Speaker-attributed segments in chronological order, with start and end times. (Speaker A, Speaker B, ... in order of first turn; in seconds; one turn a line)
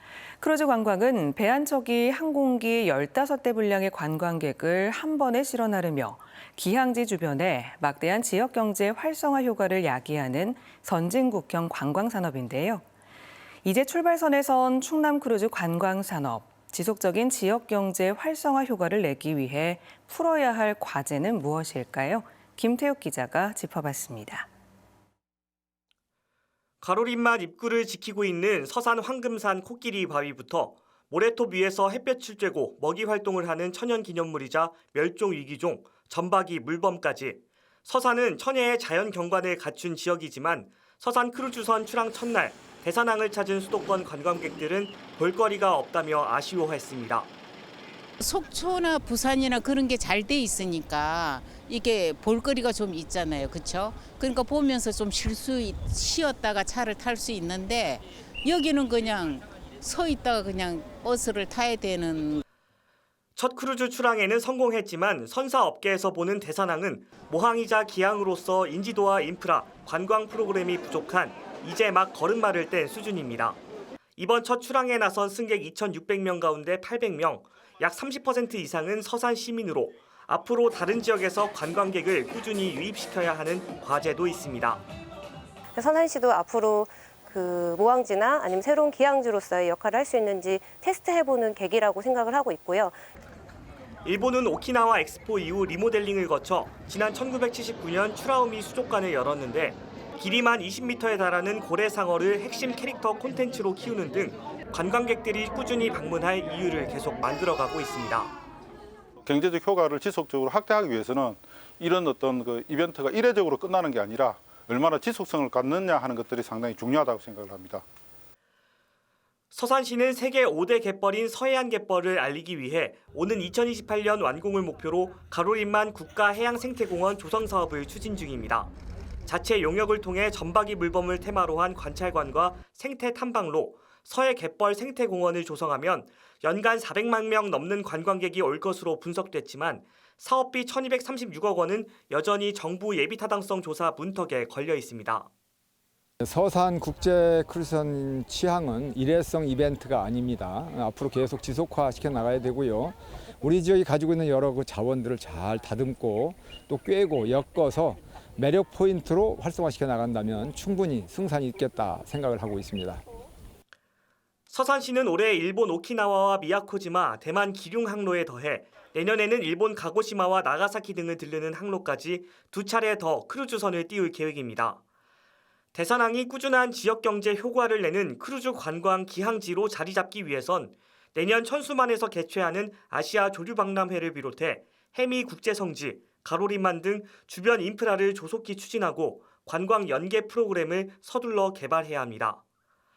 Speaker A: 0.4-12.8
Speaker A: 13.6-24.5
Speaker B: 26.8-47.3
Speaker C: 48.2-62.4
Speaker B: 63.4-73.6
Speaker B: 74.2-84.8
Speaker D: 85.7-93.0
Speaker B: 94.0-108.3
Speaker E: 109.2-117.8
Speaker B: 119.5-128.7
Speaker B: 129.2-145.3
Speaker F: 146.2-163.0
Speaker B: 164.5-174.8
Speaker B: 175.7-192.4